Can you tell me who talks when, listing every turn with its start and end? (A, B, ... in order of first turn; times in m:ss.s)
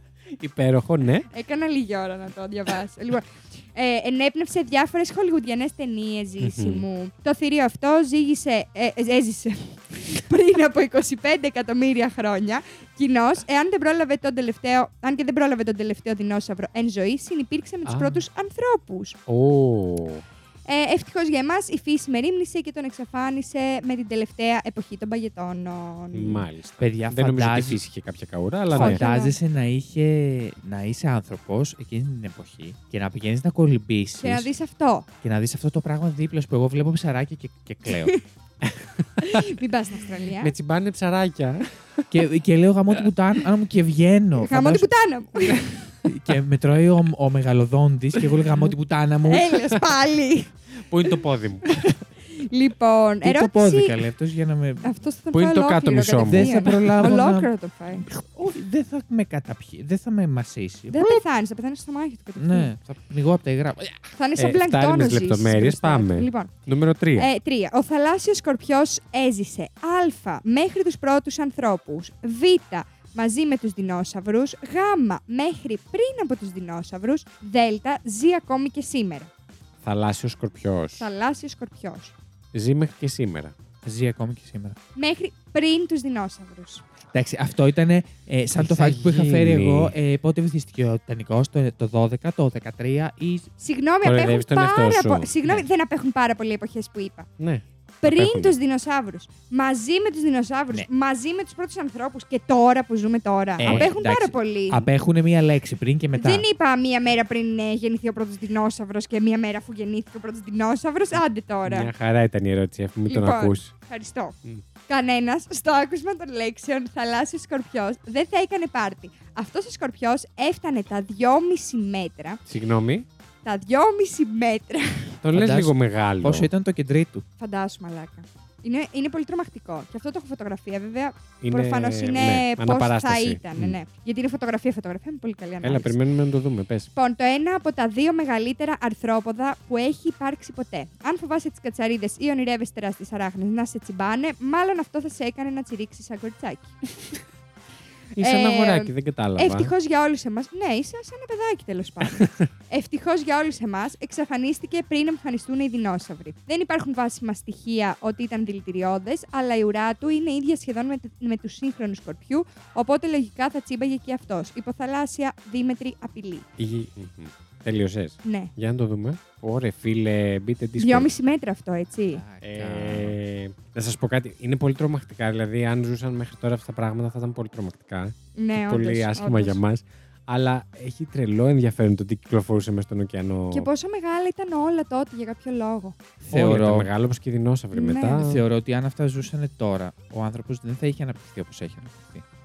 0:00.4-0:01.3 A
0:01.3-0:19.2 B
0:06.4-0:06.8 A
0:17.8-0:18.2 A
0:19.3-0:20.2 A
0:20.6-0:26.4 B
0:26.1-0:29.0 A
0:26.8-0:27.8 C
0:28.7-0:29.4 B
0:28.7-0:34.5 C
0:34.2-0:35.1 B
0:35.2-0:38.1 C
0:37.9-0:38.2 B
0:38.6-0:39.6 A
0:39.2-0:40.5 B
0:40.4-0:42.1 A
0:42.1-0:44.9 C
0:44.4-0:45.9 B
0:46.0-0:49.5 C
0:49.2-0:50.5 B
0:50.8-0:51.6 A
0:51.7-0:54.0 B
0:53.2-0:54.9 C
0:54.8-0:58.0 B
0:55.3-0:56.7 A
0:56.2-0:57.5 C
0:58.0-1:01.2 C
1:00.9-1:02.7 B
1:02.4-1:04.1 C
1:04.2-1:06.5 B
1:04.4-1:07.3 A
1:07.2-1:19.3 B
1:19.8-1:21.1 A
1:21.0-1:22.1 B
1:22.5-1:23.5 A
1:23.8-1:24.8 C
1:25.0-1:26.8 B
1:27.1-1:33.5 C
1:28.6-1:29.9 A
1:33.6-1:37.3 B
1:34.0-1:35.3 A
1:37.4-1:38.6 A
1:38.0-1:44.9 B
1:43.6-1:46.4 C
1:43.6-1:43.9 A
1:46.2-1:51.9 B
1:51.6-1:53.7 A
1:53.1-1:54.4 B
1:54.9-2:02.4 B
2:02.5-2:03.0 A
2:03.4-2:05.2 B
2:05.2-2:06.5 A
2:05.3-2:07.2 C
2:07.4-2:16.0 B
2:11.4-2:13.8 A
2:15.6-2:16.9 A
2:17.0-2:26.8 B
2:28.2-2:29.7 A
2:28.2-2:46.5 B
2:32.0-2:32.5 A
2:46.6-2:51.1 A
2:48.2-2:48.5 B
2:50.8-2:52.2 B
2:52.1-2:53.2 C
2:52.4-3:03.7 A
2:58.4-2:59.6 B
3:03.5-3:06.0 B
3:06.2-3:06.9 C
3:06.3-3:08.4 A
3:07.7-3:08.3 B
3:08.2-3:12.2 C